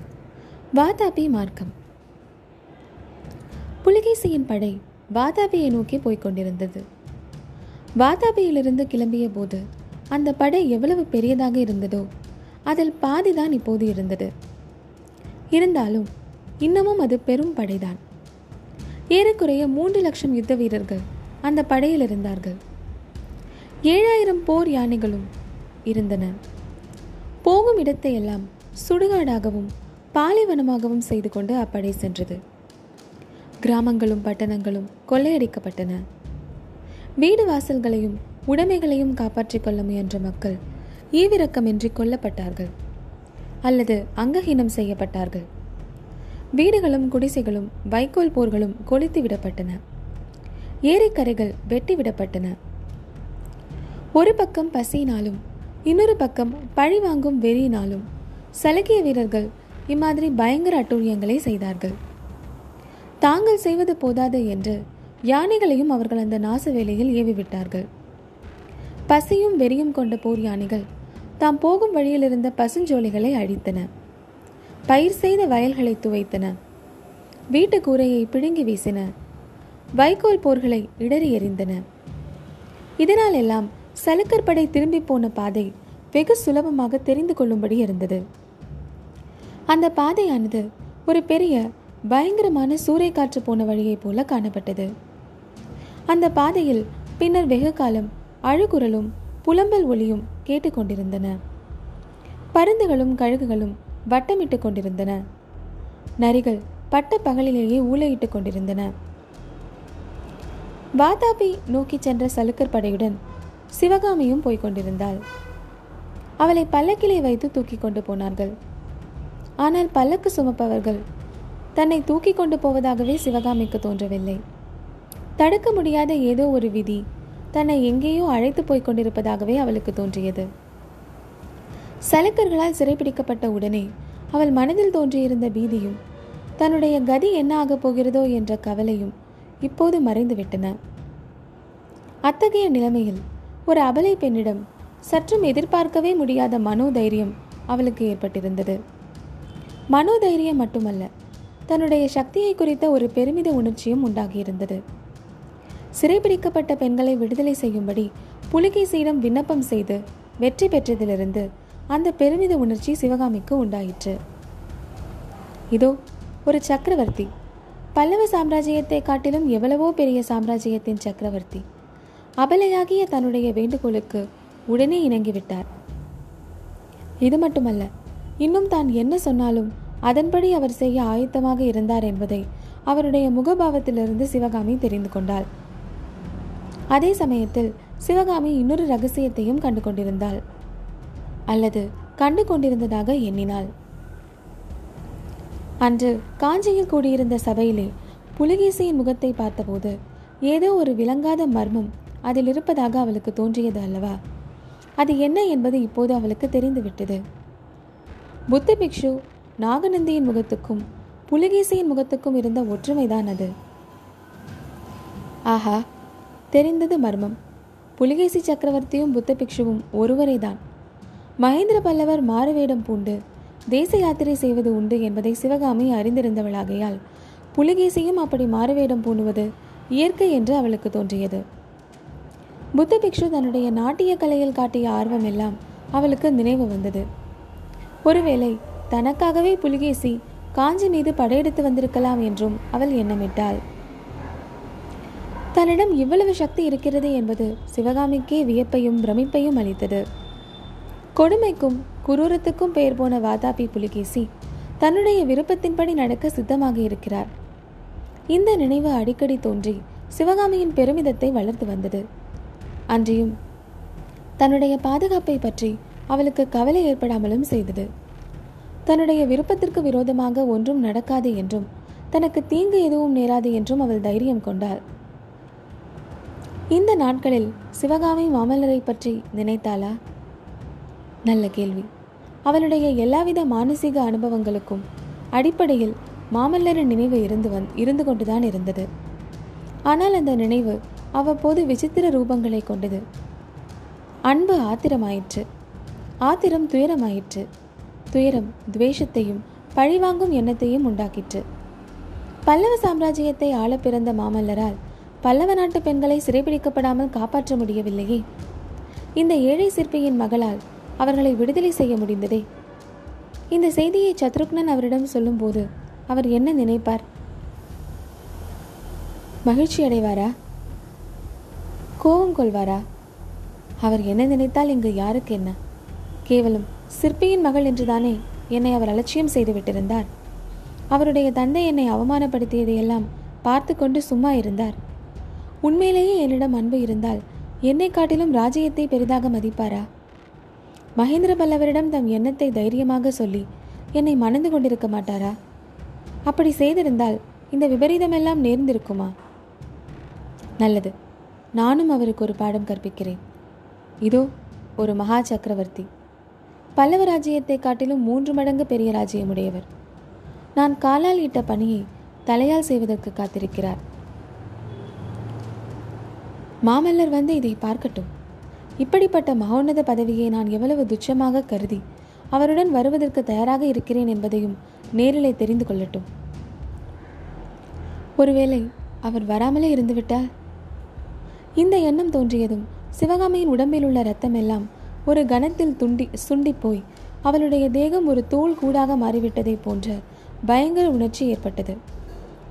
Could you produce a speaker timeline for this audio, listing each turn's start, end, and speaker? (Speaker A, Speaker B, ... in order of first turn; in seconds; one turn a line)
Speaker A: 0.8-1.7
Speaker A: 3.8-6.8
Speaker A: 8.0-9.6
Speaker A: 10.1-12.1
Speaker A: 12.7-14.3
Speaker A: 15.5-16.1
Speaker A: 16.6-18.0
Speaker A: 19.1-22.6
Speaker A: 23.9-25.3
Speaker A: 25.9-26.3
Speaker A: 27.4-32.4
Speaker A: 33.6-36.0
Speaker A: 37.2-40.6
Speaker A: 41.2-42.7
Speaker A: 43.7-45.5
Speaker A: 46.6-49.8
Speaker A: 50.9-52.5
Speaker A: 54.2-58.0
Speaker A: 58.6-61.9
Speaker A: 63.2-64.8
Speaker A: 65.3-67.8
Speaker A: 69.1-70.8
Speaker A: 71.4-73.9
Speaker A: 74.9-76.5
Speaker A: 77.5-79.1
Speaker A: 80.0-81.8
Speaker A: 83.0-88.2
Speaker A: 89.7-94.9
Speaker A: 96.1-101.4
Speaker A: 102.5-105.2
Speaker A: 106.2-108.9
Speaker A: 111.0-113.2
Speaker A: 113.8-115.2
Speaker A: 116.4-118.5
Speaker A: 119.6-121.0
Speaker A: 121.8-124.4
Speaker A: 125.4-127.0
Speaker A: 127.5-130.5
Speaker A: 132.1-136.0
Speaker A: 136.6-139.1
Speaker A: 139.6-140.7
Speaker A: 142.3-148.8
Speaker A: 149.9-151.1
Speaker A: 151.7-154.8
Speaker A: 156.0-164.2
Speaker A: 166.5-167.3
Speaker A: 167.9-171.6
Speaker A: 172.4-175.7
Speaker A: 177.2-177.9
Speaker A: 178.4-185.4
Speaker A: 186.9-190.4
Speaker A: 191.5-193.7
Speaker A: 195.8-199.9
Speaker A: 200.5-204.2
Speaker A: 205.0-207.2
Speaker A: 208.5-213.5
Speaker A: 215.5-215.8
Speaker A: 216.5-217.3
Speaker A: 218.0-220.6
Speaker A: 221.4-223.2
Speaker A: 223.7-227.0
Speaker A: 227.6-231.4
Speaker A: 232.8-237.0
Speaker A: 238.1-243.6
Speaker A: 245.6-250.0
Speaker A: 251.2-254.3
Speaker A: 254.8-257.3
Speaker A: 258.3-262.0
Speaker A: 262.9-263.3
Speaker A: 264.4-267.9
Speaker A: 268.9-274.8
Speaker A: 276.7-279.9
Speaker A: 281.3-281.9
Speaker A: 282.5-284.8
Speaker A: 285.4-288.9
Speaker A: 289.9-293.0
Speaker A: 294.3-295.4
Speaker A: 296.3-297.4
Speaker A: 298.1-301.4
Speaker A: 302.5-308.2
Speaker A: 309.2-312.4
Speaker A: 313.5-317.0
Speaker A: 319.4-320.3
Speaker A: 322.0-322.8
Speaker A: 323.8-325.6
Speaker A: 326.3-330.1
Speaker A: 330.9-334.8
Speaker A: 335.6-339.9
Speaker A: 341.0-343.4
Speaker A: 344.0-345.3
Speaker A: 346.3-349.1
Speaker A: 350.6-350.9
Speaker A: 351.6-353.2
Speaker A: 354.8-355.9
Speaker A: 356.8-359.7
Speaker A: 360.6-363.8
Speaker A: 366.7-368.1
Speaker A: 368.8-371.8
Speaker A: 372.3-376.1
Speaker A: 378.2-380.2
Speaker A: 381.6-391.8